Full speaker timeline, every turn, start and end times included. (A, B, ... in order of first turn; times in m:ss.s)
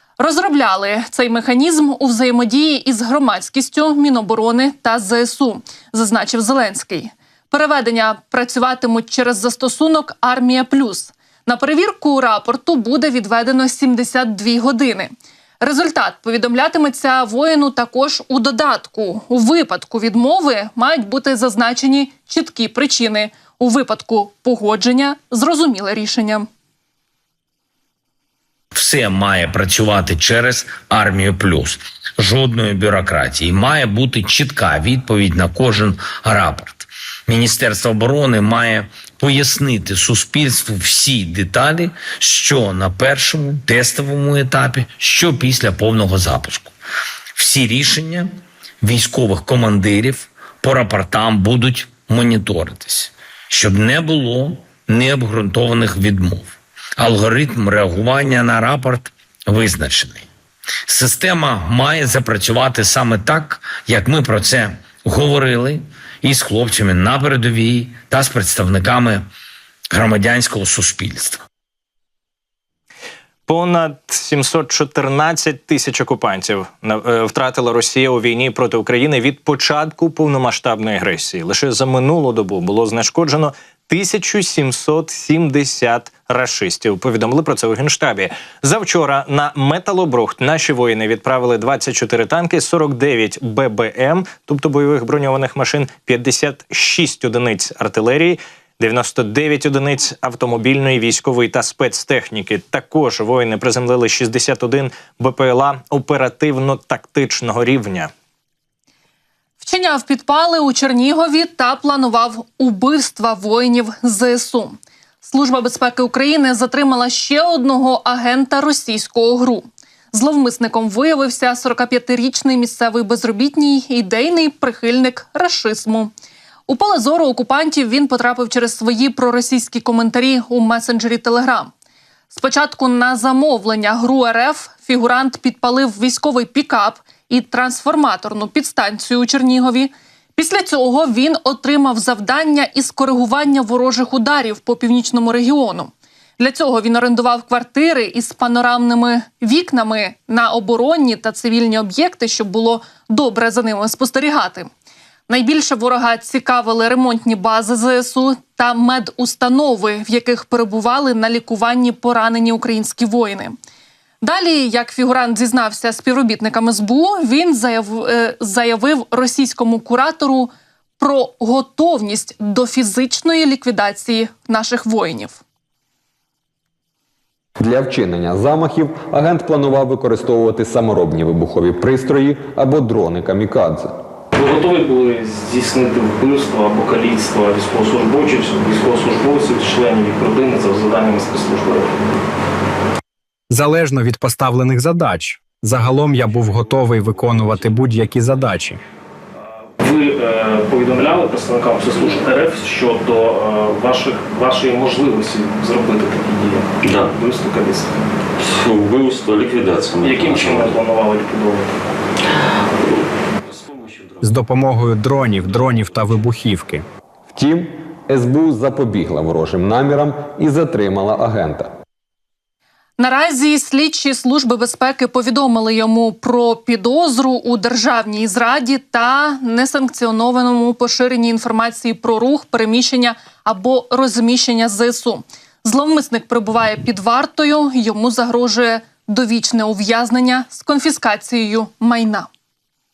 0:00.2-0:26.5 A
0:28.7-0:46.7 B
0:47.3-1:00.3 B
1:00.9-1:09.3 B
1:09.9-1:11.4 B
1:13.5-1:48.1 C
1:49.6-2:06.1 A
2:06.7-2:11.7 A
2:12.3-2:34.7 A
2:35.3-2:43.6 A
2:44.2-2:55.4 A
2:57.6-3:03.9 D
3:04.3-3:11.9 E
3:13.5-3:18.8 F
3:19.8-3:28.0 E
3:26.8-3:27.1 G
3:28.4-3:30.7 G
3:29.9-3:31.7 E
3:34.2-3:36.8 F
3:37.3-3:41.7 D
3:43.0-4:02.3 A